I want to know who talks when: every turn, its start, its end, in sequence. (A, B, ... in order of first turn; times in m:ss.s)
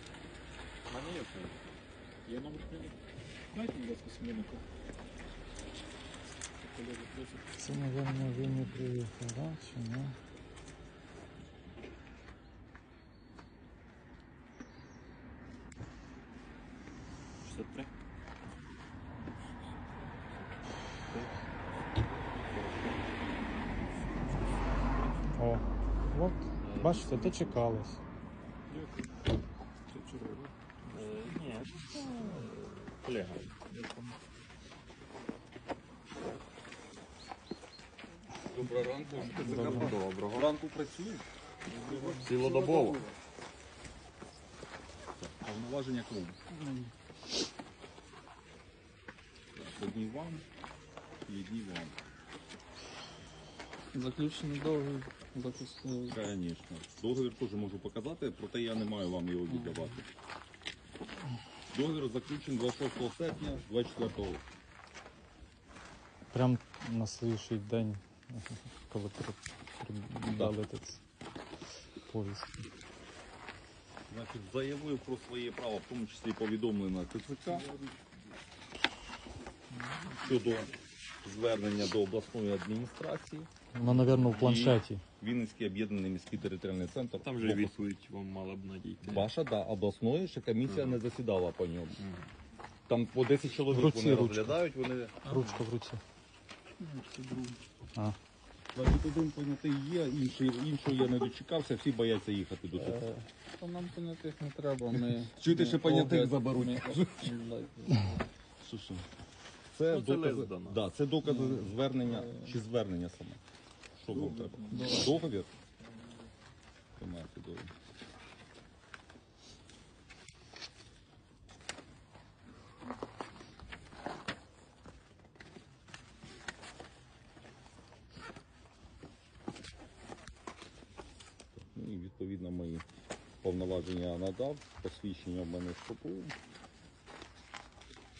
0:00.9-0:01.6 A
0:02.2-0:03.0 B
0:03.5-0:04.6 B
0:06.6-0:07.5 B
0:07.6-0:10.2 C
0:17.4-0:17.9 A
0:21.0-0:21.4 A
0:22.5-0:23.0 A
0:25.4-0:28.0 C
0:26.6-0:27.6 A
0:28.7-0:29.2 B
0:29.9-0:31.6 B
0:30.9-0:33.6 A
0:33.7-0:34.1 B
0:38.5-0:41.3 D
0:39.2-0:40.5 A
0:39.3-0:40.0 C
0:41.7-0:43.1 B
0:41.9-0:43.0 D
0:42.2-0:43.0 A
0:45.2-0:46.4 D
0:46.6-0:46.9 E
0:49.5-0:50.4 D
0:51.3-0:52.0 D
0:53.9-0:56.2 E
0:56.1-1:00.0 D
1:01.7-1:04.4 D
1:06.3-1:11.0 C
1:12.1-1:12.5 C
1:14.1-1:17.7 D
1:17.5-1:18.0 B
1:20.1-1:23.5 D
1:23.7-1:25.0 C
1:24.2-1:24.4 A
1:24.3-1:27.8 D
1:27.1-1:29.3 A
1:29.0-1:32.0 D
1:30.6-1:31.0 A
1:32.0-1:32.3 A
1:32.9-1:35.3 D
1:33.7-1:34.6 C
1:35.2-1:36.0 C
1:36.8-1:37.6 E
1:38.7-1:43.0 D
1:42.7-1:48.3 E
1:44.9-1:47.4 D
1:48.6-1:49.1 D
1:49.6-1:53.4 D
1:49.8-1:50.8 A
1:51.2-1:52.6 E
1:54.0-1:55.5 D
1:54.1-1:55.2 B
1:54.7-1:55.1 E
1:55.8-1:56.2 B
1:57.0-1:57.7 D
2:11.5-2:12.8 D
2:13.4-2:16.3 D